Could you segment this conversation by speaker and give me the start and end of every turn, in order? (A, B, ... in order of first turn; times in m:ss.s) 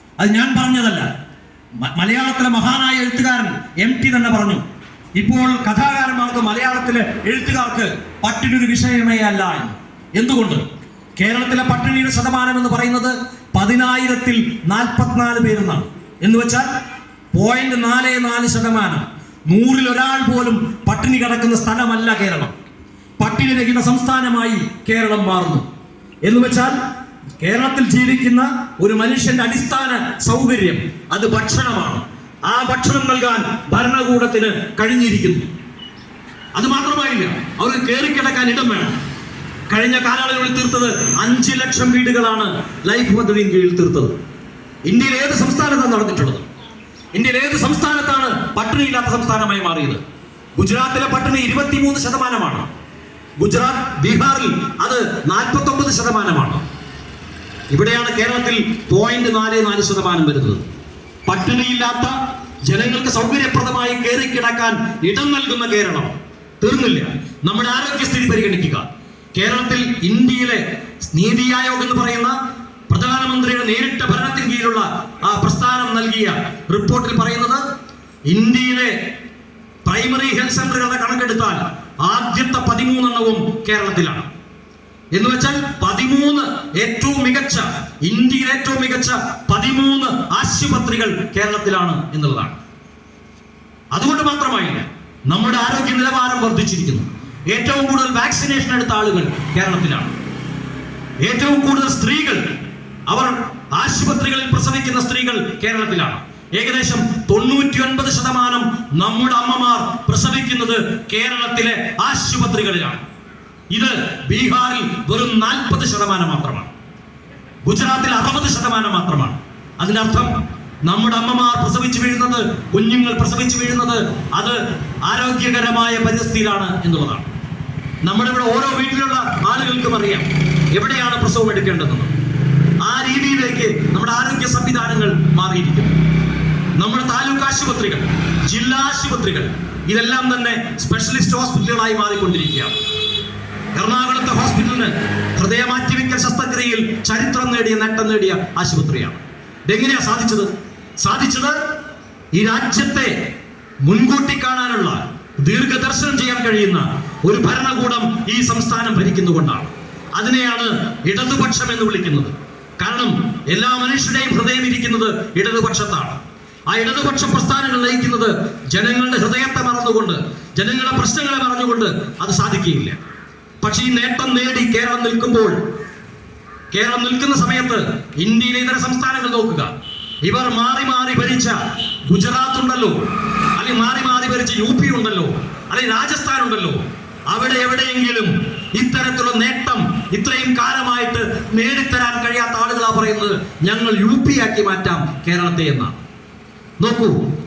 0:00.2-0:01.1 A
0:01.8-0:04.6 A
0:05.2-0:10.7 A
0:11.2-0:16.7 A
0:17.3-0:22.6 A
0:23.2-0:25.7 A
0:26.2-0:26.8 A
0:27.4-0:35.5 A
0:36.6-0:39.0 A
0:39.7-0:44.1 A
0:44.8-0:46.5 A
0:47.1-0:50.0 A
0:50.6-0:52.7 A
0:53.4-0:56.6 A
0:57.7-1:00.7 A
1:01.3-1:12.4 A
1:12.9-1:17.6 A
1:18.3-1:19.0 A
1:19.8-1:24.3 A
1:25.1-1:32.6 A
1:33.9-1:40.1 A
1:41.2-1:42.5 A
1:43.1-1:53.0 A
1:53.7-1:56.7 A
1:57.6-2:00.3 A
2:00.9-2:07.3 A
2:08.0-2:12.1 A
2:12.8-2:16.0 A
2:16.8-2:22.8 A
2:23.8-2:31.6 A
2:32.3-2:33.2 A
2:33.8-2:53.0 A
2:53.6-2:55.6 A
2:56.7-2:59.7 A
3:00.2-3:01.6 A
3:02.1-3:16.0 A
3:16.8-3:17.2 A